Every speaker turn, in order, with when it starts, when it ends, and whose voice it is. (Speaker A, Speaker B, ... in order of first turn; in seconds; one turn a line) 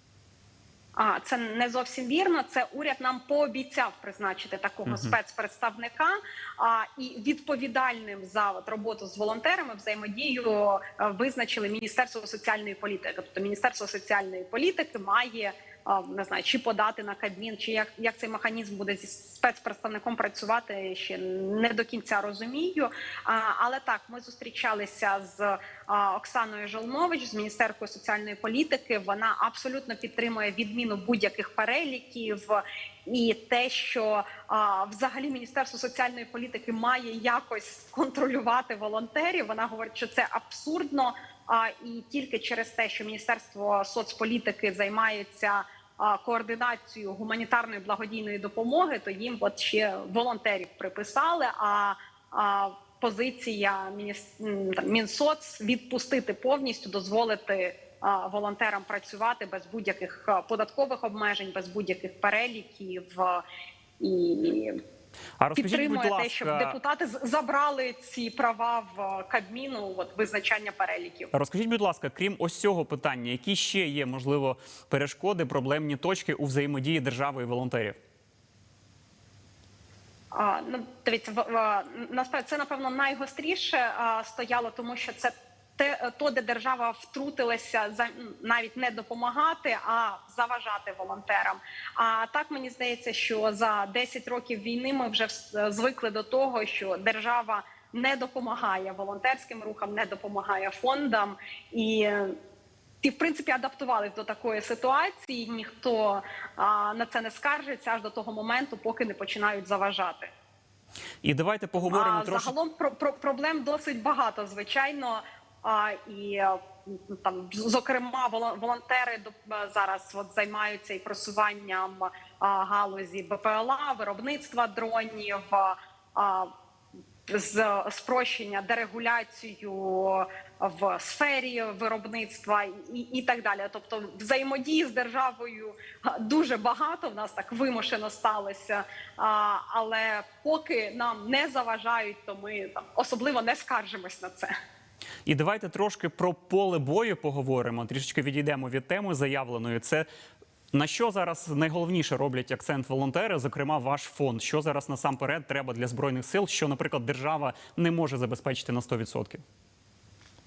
Speaker A: 1.0-63.4
Speaker B: 4.9-5.2
Speaker A: 64.0-64.8
Speaker B: 65.4-66.8
Speaker A: 65.6-71.3
Speaker B: 71.3-78.0
Speaker A: 80.3-102.3
Speaker A: 103.0-110.3
Speaker B: 111.2-112.5
Speaker A: 111.8-126.5
Speaker A: 127.3-144.5
Speaker B: 145.3-150.1
Speaker B: 150.7-159.4